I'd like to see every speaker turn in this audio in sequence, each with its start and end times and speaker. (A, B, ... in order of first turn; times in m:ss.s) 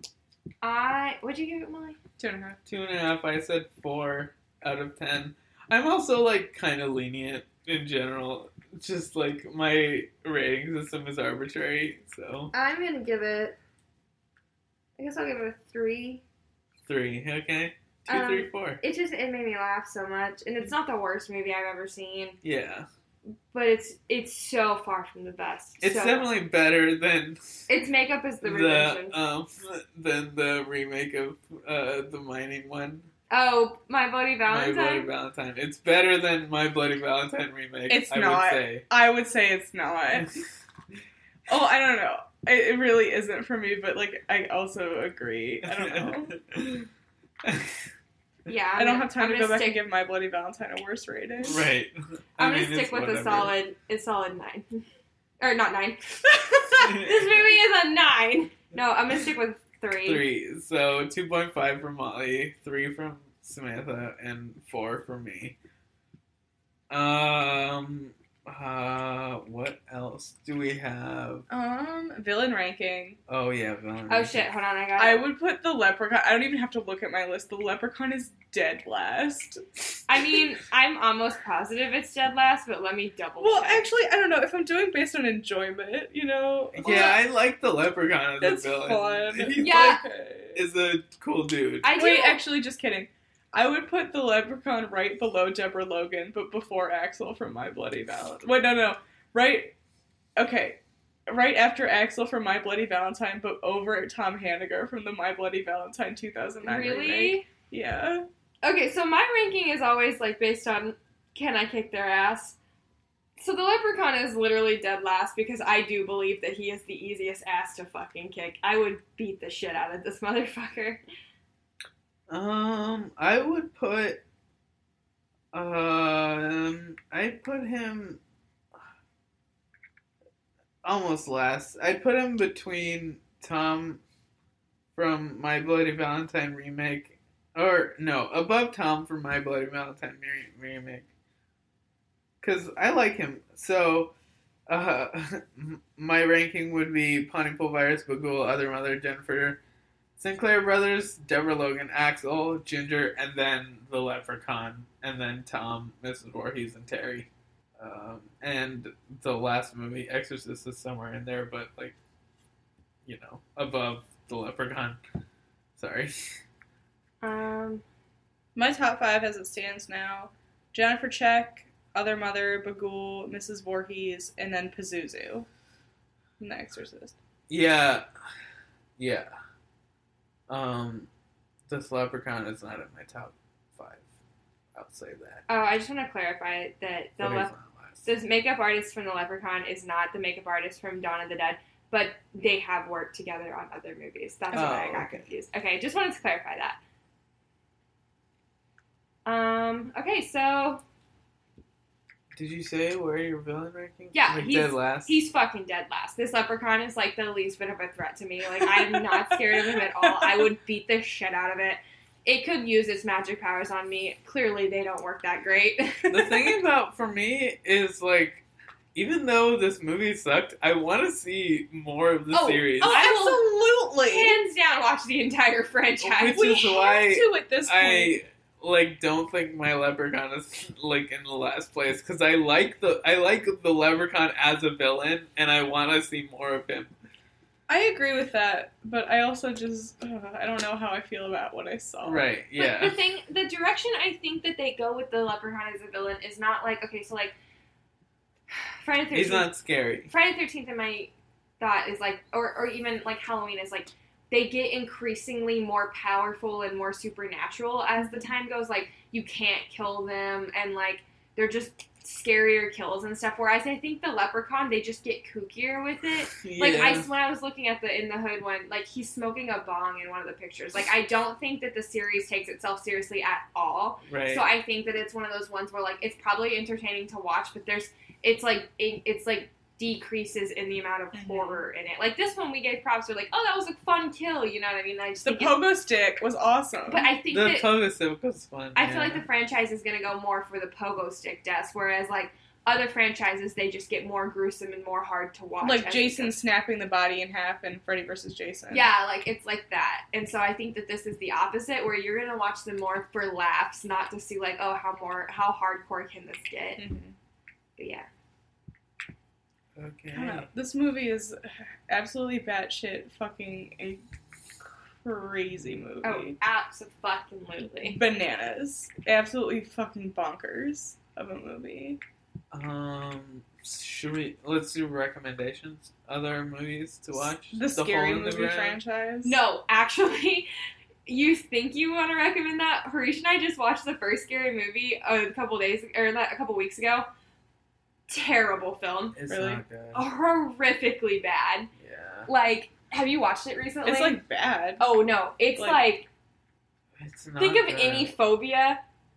0:00.6-0:02.0 A
0:02.2-0:02.6 B
0:02.7-0:12.5 C
0:12.5-0:13.6 A
0:15.0-0:16.2 A
0:16.8-0:18.8 C
0:18.1-0:22.4 A
0:22.4-0:22.9 C
0:23.5-0:26.3 A
0:25.8-0:27.6 C
0:27.7-0:29.2 A
0:28.4-0:33.1 C
0:33.3-0:35.1 A
0:34.4-0:38.9 C
0:37.9-0:40.3 B
0:41.5-0:46.4 B
0:45.8-0:46.9 C
0:47.4-0:47.7 C
0:48.4-0:49.8 A
0:48.8-0:51.6 B
0:51.4-0:53.5 C
0:52.4-0:54.8 A
0:55.4-1:00.2 A
0:56.8-0:57.5 C
1:00.0-1:05.6 C
1:06.9-1:11.4 C
1:11.5-1:13.2 B
1:13.3-1:14.5 C
1:14.1-1:15.3 A
1:15.0-1:19.6 B
1:20.1-1:23.9 A
1:23.4-1:27.2 B
1:26.8-1:30.0 C
1:26.9-1:27.1 A
1:28.4-1:30.6 B
1:29.6-1:30.0 A
1:30.6-1:31.9 C
1:31.8-1:32.4 A
1:32.0-1:39.7 B
1:40.4-1:48.3 B
1:46.6-1:47.5 A
1:48.6-1:52.6 A
1:53.4-2:01.0 A
2:02.3-2:04.2 C
2:05.5-2:08.2 C
2:10.8-2:14.0 C
2:15.0-2:21.0 C
2:22.4-2:24.1 C
2:24.7-2:29.6 C
2:30.2-2:42.0 C
2:43.0-2:45.0 C
2:45.8-2:46.1 C
2:47.2-2:47.8 A
2:48.6-2:55.5 B
2:56.4-2:57.2 B
2:57.5-2:58.0 C
2:59.0-2:59.3 C
3:00.5-3:01.1 C
3:01.7-3:04.0 C
3:04.7-3:05.4 C
3:05.5-3:07.5 A
3:07.2-3:08.1 C
3:08.0-3:16.8 A
3:14.5-3:15.2 C
3:19.3-3:20.8 A
3:22.3-3:25.2 C
3:24.1-3:36.4 A
3:28.6-3:30.5 B
3:36.1-3:38.4 C
3:39.0-3:43.0 C
3:42.3-3:43.5 A
3:42.8-3:44.4 B
3:44.0-3:46.7 A
3:46.0-3:56.9 C
3:46.6-3:48.2 B
3:57.7-4:02.2 B
4:02.0-4:03.0 C
4:02.6-4:07.3 A
4:08.8-4:09.5 A
4:09.1-4:10.1 C
4:10.1-4:45.6 A
4:26.4-4:27.1 C
4:34.1-4:34.5 C
4:41.1-4:41.6 B
4:45.2-4:47.1 B
4:46.9-4:47.7 A
4:47.3-4:49.2 C
4:48.7-4:56.3 A
4:55.6-4:58.9 B
4:58.7-5:06.8 A
5:06.8-5:07.1 B
5:07.8-5:08.1 A
5:09.8-5:10.5 C
5:10.1-5:14.0 B
5:14.6-5:16.4 B
5:16.0-5:18.0 A
5:17.8-5:22.0 B
5:22.5-5:28.8 C
5:27.5-5:29.4 B
5:29.2-5:30.5 A
5:31.0-5:37.1 A
5:38.1-5:39.2 A
5:39.1-5:40.0 C
5:39.3-5:39.6 B
5:39.9-5:41.7 A
5:41.8-5:42.3 C
5:42.3-5:44.2 A
5:43.8-5:45.0 B
5:44.8-5:46.1 A
5:45.6-5:45.8 B
5:47.0-5:48.1 C
5:47.4-5:48.8 A